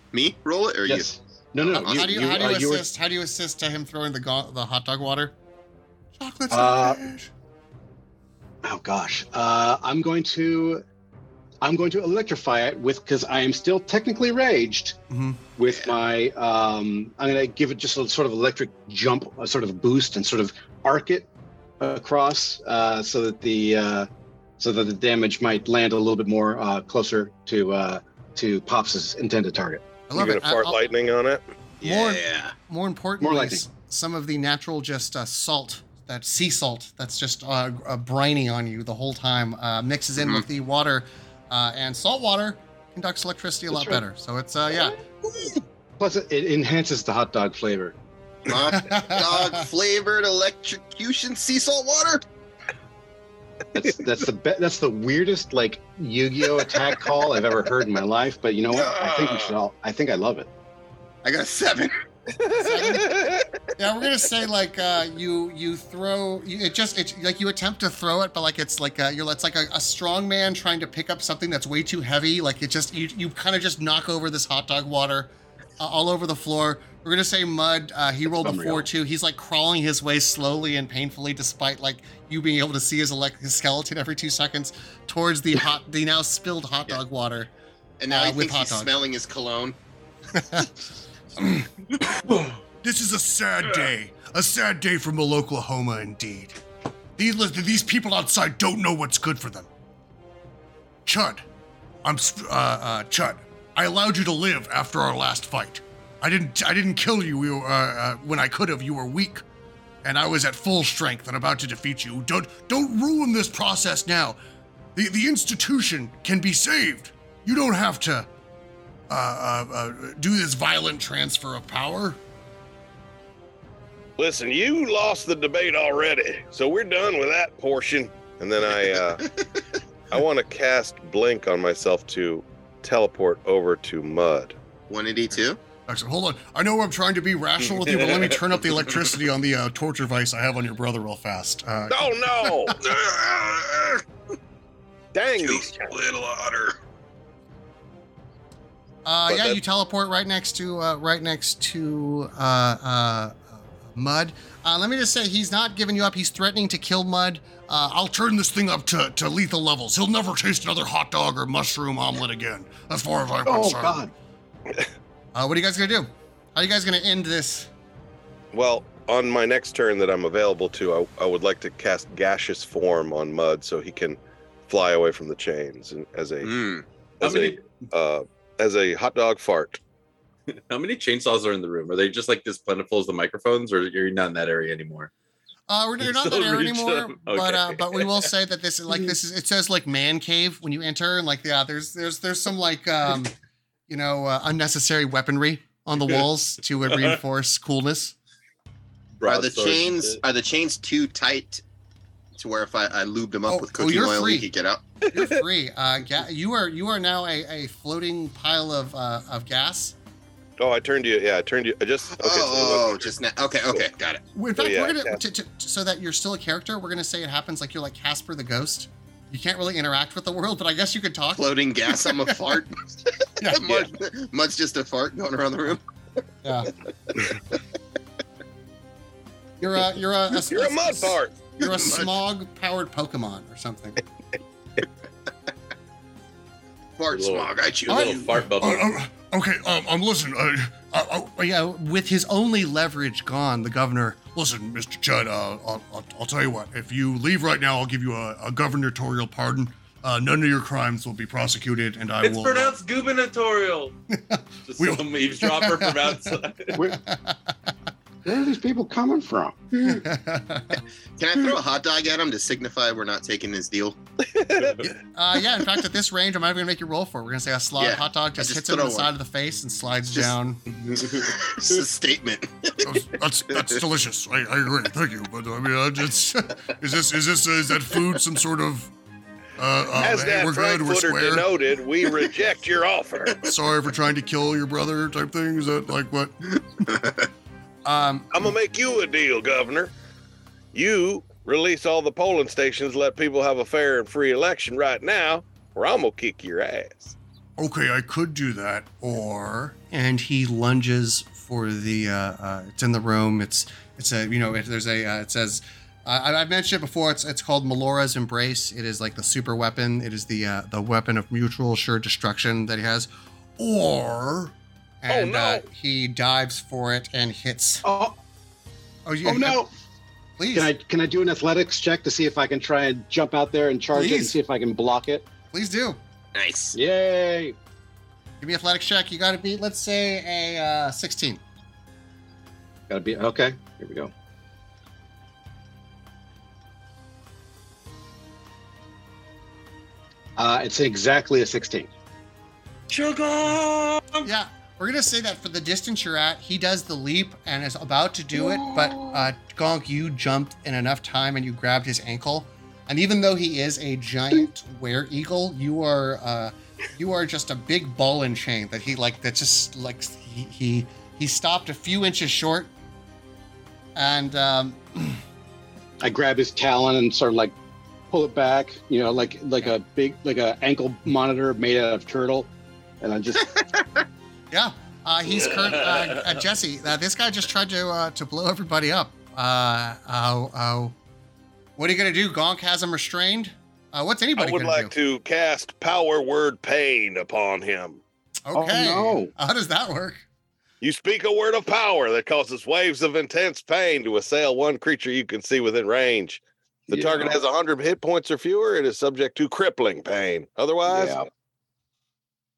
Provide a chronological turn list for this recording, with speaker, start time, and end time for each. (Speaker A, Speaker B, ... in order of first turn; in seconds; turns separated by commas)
Speaker A: 0.1-1.1, Speaker B: 0.8-2.9, Speaker A: 1.7-2.1, Speaker C: 1.7-5.3, Speaker C: 6.2-7.3, Speaker B: 6.5-7.0, Speaker B: 8.6-10.8, Speaker B: 11.6-15.0, Speaker C: 15.1-15.4, Speaker B: 15.6-21.3, Speaker A: 15.7-15.9, Speaker B: 21.8-24.1, Speaker B: 24.6-29.9, Speaker C: 30.1-30.9, Speaker D: 30.1-31.4, Speaker A: 31.8-32.5, Speaker C: 31.8-45.0, Speaker B: 33.2-33.6, Speaker A: 40.2-40.4, Speaker B: 43.7-44.0, Speaker B: 46.0-48.0, Speaker A: 48.5-52.2, Speaker C: 48.7-49.6, Speaker B: 53.7-60.5, Speaker A: 58.7-59.5, Speaker A: 61.2-62.0, Speaker D: 62.4-63.4, Speaker C: 62.6-87.5, Speaker B: 78.4-78.9, Speaker A: 88.0-89.8, Speaker C: 88.1-88.9, Speaker E: 92.8-96.6, Speaker E: 97.2-99.7, Speaker E: 101.0-101.4, Speaker E: 102.0-109.4, Speaker E: 110.0-114.4, Speaker E: 114.9-118.3, Speaker E: 119.1-122.2, Speaker D: 124.2-129.2, Speaker D: 130.1-134.6, Speaker A: 134.9-135.6, Speaker E: 135.9-142.0, Speaker F: 137.9-138.4, Speaker D: 141.9-142.8, Speaker A: 142.8-144.0, Speaker D: 145.1-145.9, Speaker A: 145.4-146.8, Speaker C: 149.0-158.1, Speaker D: 149.3-149.6, Speaker E: 158.0-164.1, Speaker B: 163.4-164.1, Speaker C: 165.3-167.7, Speaker D: 168.5-176.5, Speaker A: 176.4-176.8, Speaker D: 177.2-179.8, Speaker F: 177.2-177.9, Speaker F: 180.5-185.1, Speaker C: 185.7-193.3, Speaker F: 186.0-188.3, Speaker C: 193.9-198.1, Speaker F: 199.2-200.2, Speaker A: 199.2-201.6, Speaker A: 202.4-204.8, Speaker C: 203.5-204.5, Speaker C: 205.1-209.9, Speaker D: 210.6-213.1, Speaker A: 212.1-214.2, Speaker C: 214.3-222.4, Speaker D: 214.6-215.2, Speaker A: 221.3-222.9, Speaker C: 223.4-223.9, Speaker A: 223.5-225.8, Speaker C: 226.4-226.7, Speaker C: 229.6-234.0, Speaker D: 230.4-231.4, Speaker A: 231.6-232.2, Speaker A: 237.0-238.4, Speaker F: 237.1-238.9, Speaker C: 237.9-238.2, Speaker E: 238.6-241.5, Speaker C: 241.4-244.2, Speaker E: 244.1-252.7, Speaker F: 252.2-253.9, Speaker F: 254.7-256.8, Speaker E: 254.8-255.9, Speaker B: 256.7-257.0, Speaker C: 256.9-257.4, Speaker B: 258.2-259.6, Speaker C: 259.8-260.8, Speaker A: 261.2-264.0, Speaker D: 264.3-264.9, Speaker F: 264.6-264.9, Speaker C: 265.1-270.6, Speaker A: 267.8-269.1, Speaker A: 270.9-273.8, Speaker F: 270.9-271.3, Speaker E: 272.8-278.9, Speaker E: 279.6-281.4, Speaker D: 279.9-283.4, Speaker E: 283.4-286.6, Speaker A: 286.8-287.3, Speaker C: 287.8-288.3, Speaker D: 288.3-289.9, Speaker D: 290.7-297.1, Speaker E: 297.6-299.8, Speaker C: 299.8-313.1, Speaker E: 313.6-314.5, Speaker C: 315.0-317.8, Speaker D: 315.1-315.6, Speaker B: 317.8-318.2, Speaker C: 319.1-319.6, Speaker B: 319.2-319.7, Speaker C: 320.4-320.7, Speaker B: 320.5-325.3, Speaker C: 323.9-324.4, Speaker C: 325.5-326.0, Speaker A: 326.3-326.8, Speaker B: 326.7-327.6, Speaker C: 328.4-331.4, Speaker B: 332.9-334.1, Speaker B: 340.4-341.9, Speaker F: 342.9-344.3, Speaker C: 344.2-362.7, Speaker B: 348.4-348.9, Speaker C: 363.9-365.2, Speaker B: 366.0-367.5, Speaker B: 368.1-373.5, Speaker A: 373.6-373.9, Speaker C: 374.5-380.9, Speaker F: 375.6-376.2, Speaker C: 381.8-384.9, Speaker D: 384.4-388.0, Speaker C: 388.4-390.2, Speaker B: 388.5-389.3, Speaker D: 390.8-401.2, Speaker B: 396.9-397.4, Speaker B: 400.9-401.2